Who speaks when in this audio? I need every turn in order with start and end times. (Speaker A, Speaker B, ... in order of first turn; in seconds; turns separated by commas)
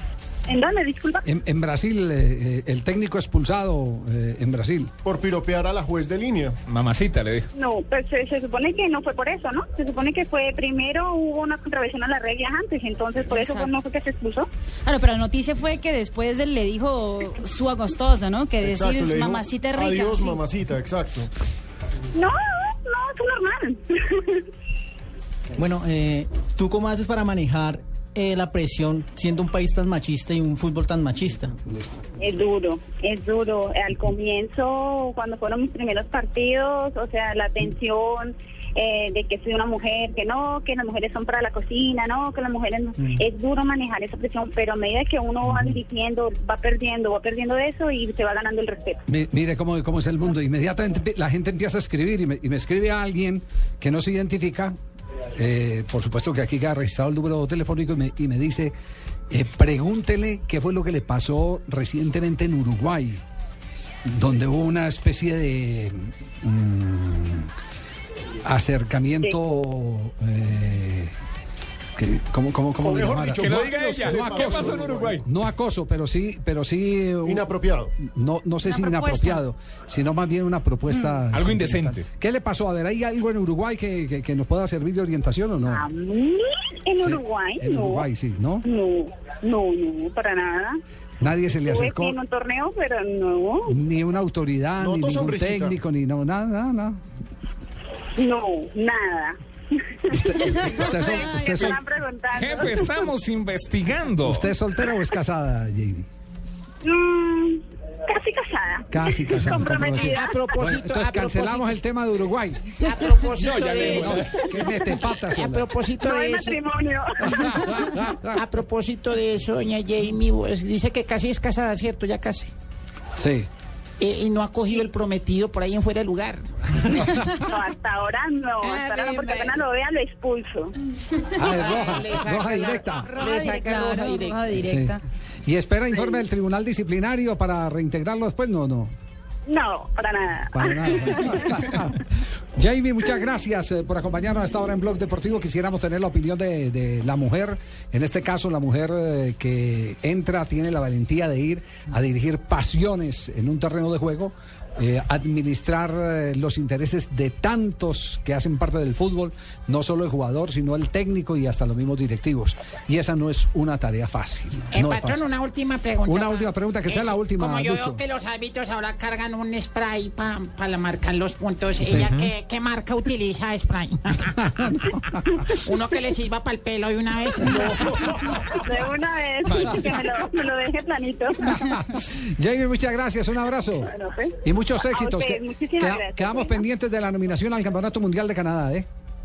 Speaker A: 0.5-1.2, Speaker B: 1.2-4.9, Speaker C: 5.0-6.5, Speaker D: 6.7-7.5, Speaker A: 7.5-14.5, Speaker E: 13.3-13.8, Speaker E: 14.8-20.4, Speaker C: 18.6-21.3, Speaker A: 22.1-24.4, Speaker F: 25.6-31.5, Speaker A: 32.2-49.0, Speaker B: 49.1-54.7, Speaker B: 55.4-58.7, Speaker B: 59.3-63.2, Speaker B: 64.0-67.5, Speaker B: 68.4-71.1, Speaker B: 72.0-85.8, Speaker C: 72.9-75.2, Speaker D: 73.3-75.3, Speaker C: 77.2-77.9, Speaker E: 78.6-79.4, Speaker D: 81.3-82.0, Speaker A: 85.7-88.0, Speaker B: 87.0-88.7, Speaker A: 88.6-90.8, Speaker B: 91.2-92.2, Speaker A: 91.6-93.8, Speaker B: 93.7-97.0, Speaker C: 94.8-95.7, Speaker A: 98.2-99.3, Speaker A: 100.0-103.0, Speaker B: 100.1-101.8, Speaker D: 102.3-104.5, Speaker B: 104.2-106.0, Speaker A: 106.8-110.4, Speaker B: 108.9-112.9, Speaker G: 110.0-111.8, Speaker G: 112.8-114.2, Speaker D: 113.4-114.3, Speaker B: 113.6-115.7, Speaker G: 114.9-116.6, Speaker A: 116.0-117.9, Speaker B: 117.3-118.4, Speaker G: 118.3-122.5, Speaker B: 123.2-123.5, Speaker G: 124.0-126.5, Speaker B: 127.0-127.3, Speaker A: 127.4-130.7, Speaker G: 128.6-129.6, Speaker B: 131.3-133.1, Speaker G: 131.4-134.5, Speaker E: 133.2-135.0, Speaker B: 134.6-138.9, Speaker A: 139.5-141.6, Speaker B: 140.5-165.2, Speaker G: 164.7-174.9, Speaker B: 166.0-168.0, Speaker B: 171.8-172.1, Speaker D: 172.0-172.3, Speaker G: 175.5-178.1, Speaker B: 177.5-178.0, Speaker A: 178.5-181.6, Speaker D: 179.4-179.9, Speaker B: 181.4-183.9, Speaker A: 183.8-186.6, Speaker B: 184.4-188.8